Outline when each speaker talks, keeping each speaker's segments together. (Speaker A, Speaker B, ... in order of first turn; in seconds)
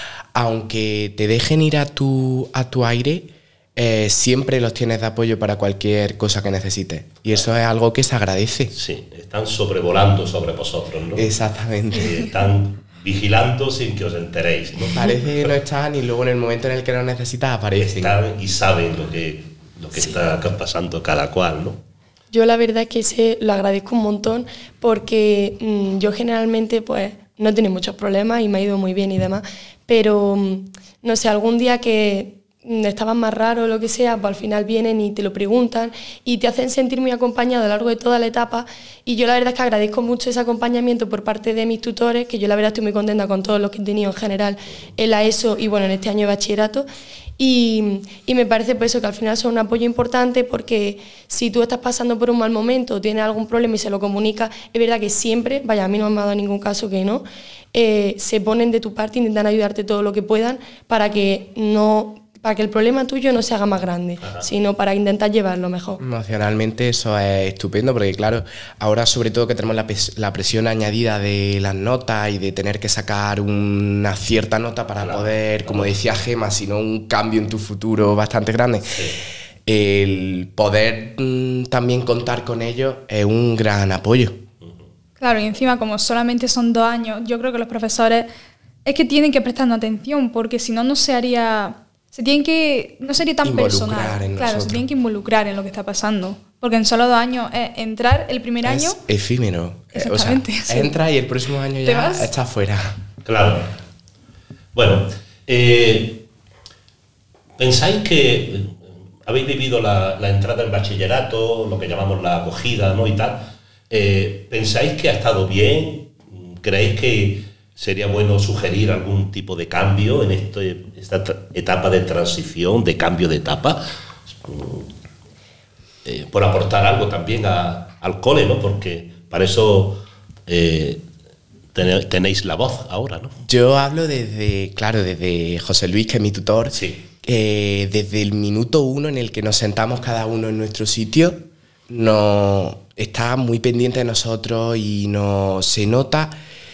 Speaker A: 0.3-8.7, 11.1-12.1, 14.9-18.1, 66.0-79.1, 79.7-84.4, 93.4-94.8, 98.6-102.9, 133.5-146.3
Speaker B: 8.7-11.3, 11.9-15.5, 17.8-21.8, 64.2-64.5, 75.0-76.0, 78.9-79.2, 84.6-84.9, 103.2-103.7, 104.7-106.2, 107.6-124.9, 126.0-131.0, 131.7-133.4, 136.7-137.0
Speaker C: 22.3-46.9, 47.4-66.0
Speaker D: 85.2-88.3, 88.8-99.0, 99.9-100.9, 101.8-102.3